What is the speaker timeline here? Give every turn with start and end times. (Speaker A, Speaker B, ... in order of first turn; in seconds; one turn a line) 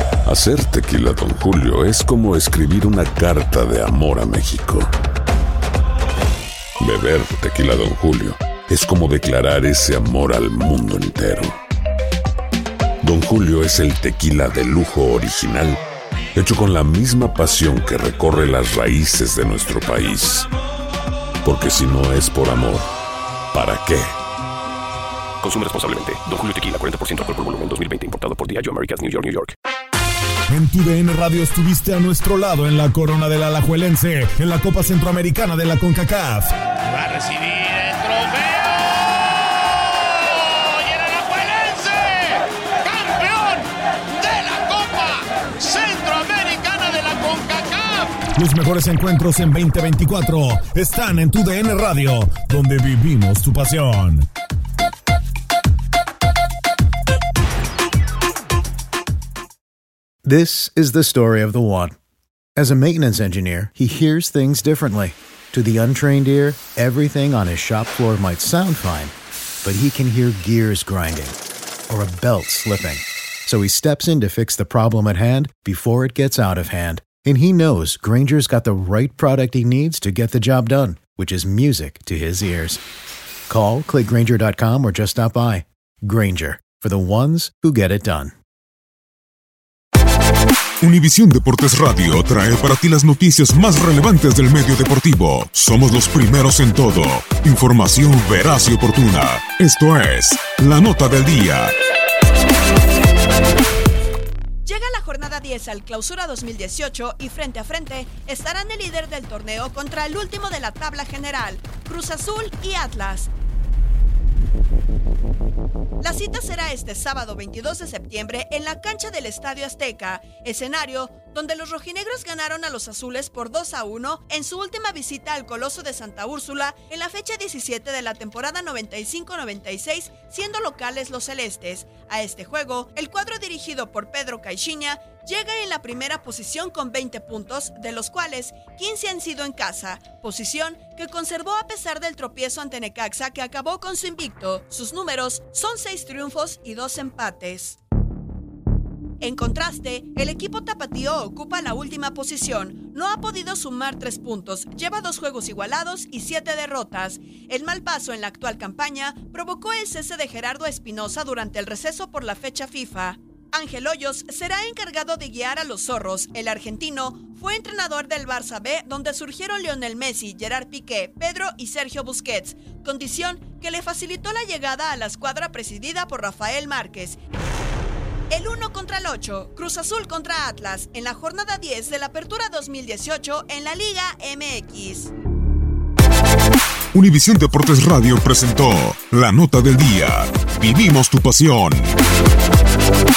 Speaker A: 0.2-4.9
Speaker A: 6.8-11.6
Speaker A: 13.0-15.8
Speaker A: 16.4-20.5
Speaker A: 21.4-22.9
Speaker A: 23.5-24.1
Speaker B: 25.4-29.5
Speaker C: 30.5-36.5
Speaker D: 36.9-39.4
Speaker D: 40.2-48.3
Speaker C: 48.3-54.3
Speaker E: 60.2-61.9
Speaker E: 62.6-71.4
Speaker E: 71.9-82.8
Speaker E: 83.5-88.3
Speaker F: 90.8-101.7
Speaker G: 104.7-113.3
Speaker G: 116.0-147.8
Speaker G: 149.2-177.2
Speaker G: 178.3-185.1
Speaker F: 186.9-191.9